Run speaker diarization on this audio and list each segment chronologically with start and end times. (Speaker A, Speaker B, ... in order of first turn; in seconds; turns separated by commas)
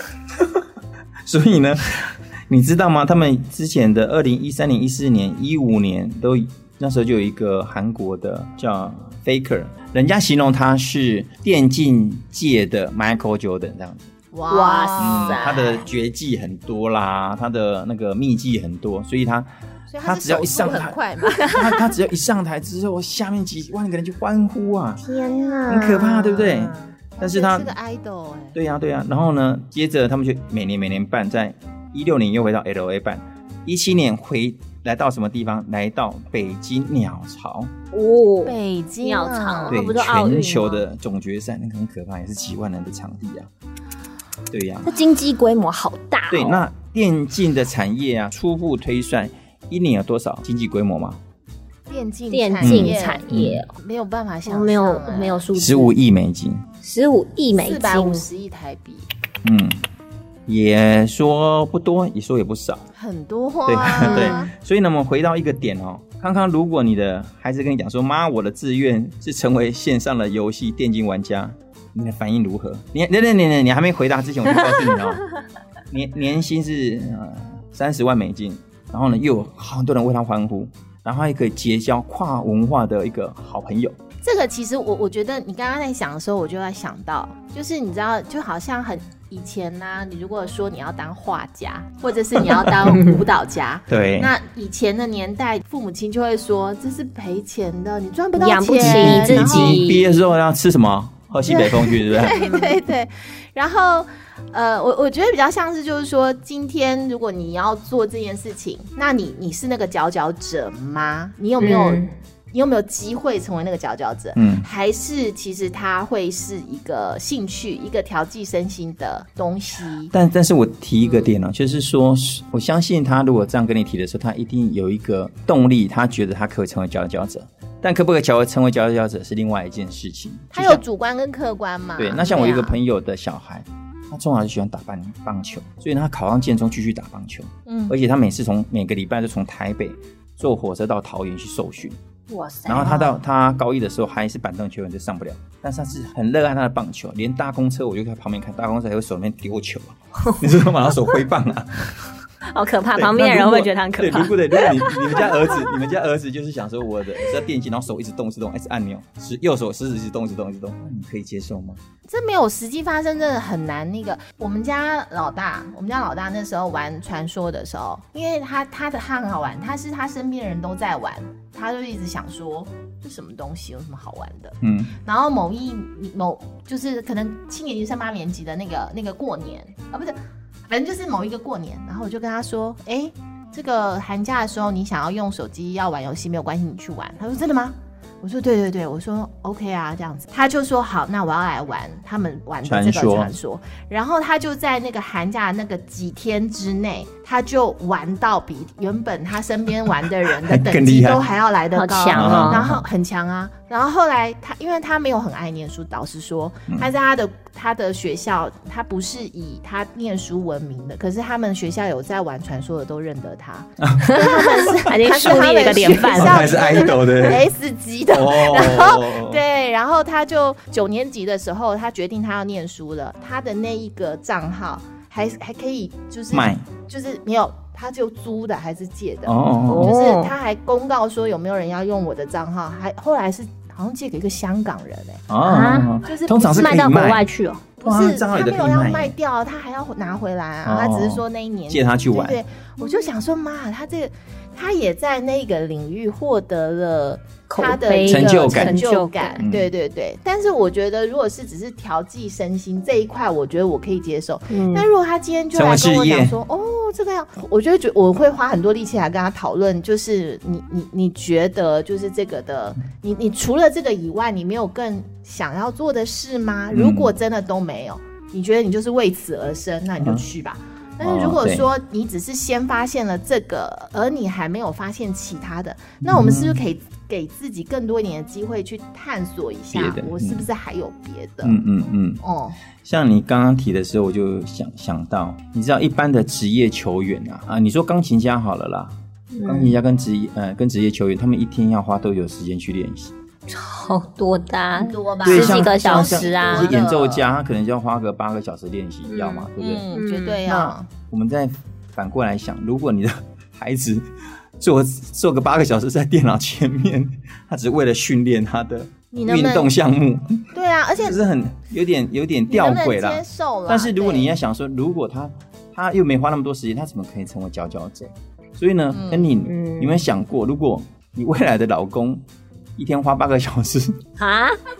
Speaker A: 0.3-0.6, Speaker A: 1.2-14.1, Speaker B: 14.3-15.8, Speaker C: 14.5-15.8, Speaker A: 15.0-19.5, Speaker B: 19.9-21.8, Speaker A: 20.0-25.0, Speaker C: 21.4-21.6, Speaker C: 25.0-26.9, Speaker B: 25.0-25.9, Speaker A: 25.7-27.7, Speaker B: 27.2-28.6, Speaker A: 28.5-37.7, Speaker C: 37.9-40.8, Speaker B: 38.4-39.8, Speaker A: 39.7-43.5, Speaker A: 44.5-45.0, Speaker C: 44.8-46.6, Speaker A: 46.3-51.2, Speaker B: 51.9-55.4, Speaker C: 52.3-53.7, Speaker A: 52.6-53.6, Speaker C: 54.5-55.9, Speaker A: 55.5-56.7, Speaker C: 56.8-58.3, Speaker B: 57.5-59.1, Speaker A: 59.4-59.8, Speaker A: 60.5-62.9, Speaker B: 62.9-64.5, Speaker A: 63.6-75.2, Speaker C: 64.0-64.4, Speaker A: 75.9-83.9, Speaker B: 84.2-99.9, Speaker C: 92.9-93.2, Speaker A: 93.9-94.3, Speaker C: 98.4-100.1, Speaker A: 98.8-102.5, Speaker B: 101.5-120.1, Speaker C: 102.3-102.8, Speaker C: 111.6-112.1, Speaker A: 114.3-114.7, Speaker A: 120.1-130.8, Speaker B: 130.5-132.8, Speaker A: 132.0-142.0, Speaker B: 137.7-137.9, Speaker C: 142.3-143.2, Speaker A: 142.7-152.0, Speaker C: 152.5-155.8, Speaker A: 152.9-161.8, Speaker B: 162.1-180.2, Speaker A: 174.6-174.9, Speaker B: 180.7-235.2, Speaker A: 192.6-193.3, Speaker A: 200.2-201.2, Speaker C: 201.7-202.6, Speaker A: 202.1-202.8, Speaker A: 213.8-214.1, Speaker C: 214.0-216.5, Speaker A: 215.9-217.5, Speaker A: 218.1-219.4, Speaker A: 226.3-226.6, Speaker A: 229.2-229.9, Speaker C: 229.7-230.3, Speaker A: 235.3-237.3, Speaker C: 235.4-235.9, Speaker B: 236.0-236.9, Speaker C: 236.6-237.6, Speaker B: 237.8-281.6, Speaker A: 237.8-239.1, Speaker A: 240.6-242.4, Speaker C: 247.5-249.4, Speaker A: 248.0-248.8, Speaker A: 249.4-249.7, Speaker C: 254.5-254.9, Speaker A: 255.5-256.3, Speaker A: 266.7-267.1, Speaker A: 271.0-271.7, Speaker A: 276.0-276.6, Speaker A: 279.7-280.5, Speaker A: 281.4-282.2, Speaker B: 282.2-282.6, Speaker A: 282.8-293.1, Speaker C: 289.3-289.8, Speaker C: 293.5-296.7, Speaker B: 294.7-297.3, Speaker A: 295.2-299.9, Speaker C: 299.1-300.5, Speaker B: 299.6-300.9, Speaker A: 300.5-304.1, Speaker A: 304.6-322.2, Speaker B: 309.1-309.7, Speaker B: 310.5-311.3, Speaker B: 312.5-314.3, Speaker B: 318.9-319.2, Speaker C: 319.4-320.0, Speaker A: 322.8-324.0, Speaker C: 324.2-324.6